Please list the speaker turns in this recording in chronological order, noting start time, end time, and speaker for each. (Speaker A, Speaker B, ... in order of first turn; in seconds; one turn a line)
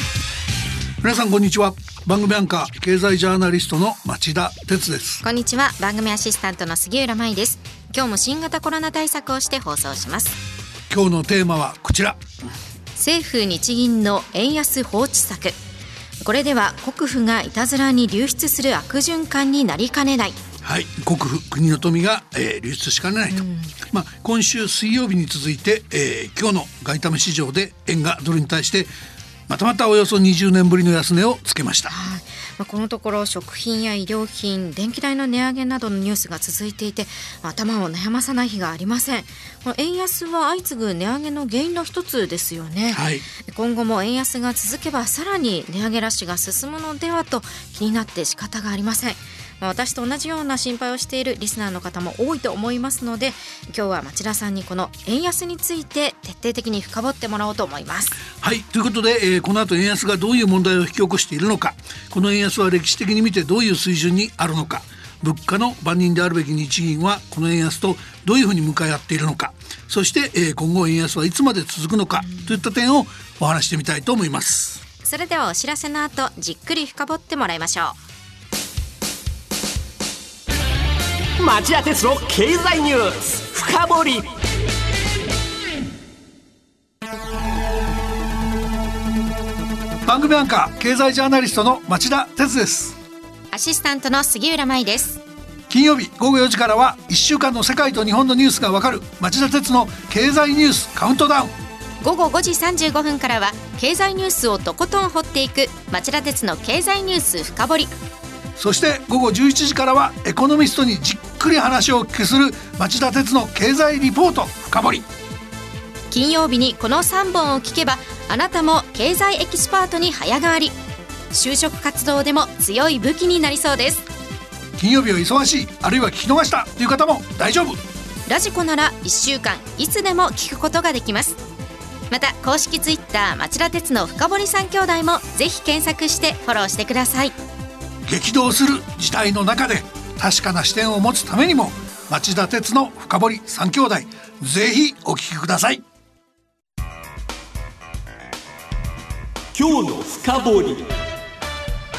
Speaker A: 1.0-5.2
Speaker B: 5.2-10.4
Speaker A: 10.9-12.2
Speaker B: 13.0-15.6
Speaker B: 16.2-20.4
Speaker A: 20.6-28.9
Speaker B: 23.3-23.8
Speaker A: 29.5-31.9
Speaker B: 31.9-58.2
Speaker A: 42.9-43.2
Speaker A: 58.4-74.8
Speaker B: 75.0-78.0
Speaker C: 81.4-84.2
Speaker A: 90.1-93.0
Speaker B: 93.5-95.2
Speaker A: 95.7-101.5
Speaker B: 102.0-107.9
Speaker A: 108.6-115.1
Speaker B: 116.1-120.8
Speaker B: 121.3-124.1
Speaker A: 124.8-127.8
Speaker B: 128.3-131.4
Speaker B: 132.1-137.3
Speaker A: 138.1-145.8
Speaker C: 149.6-150.9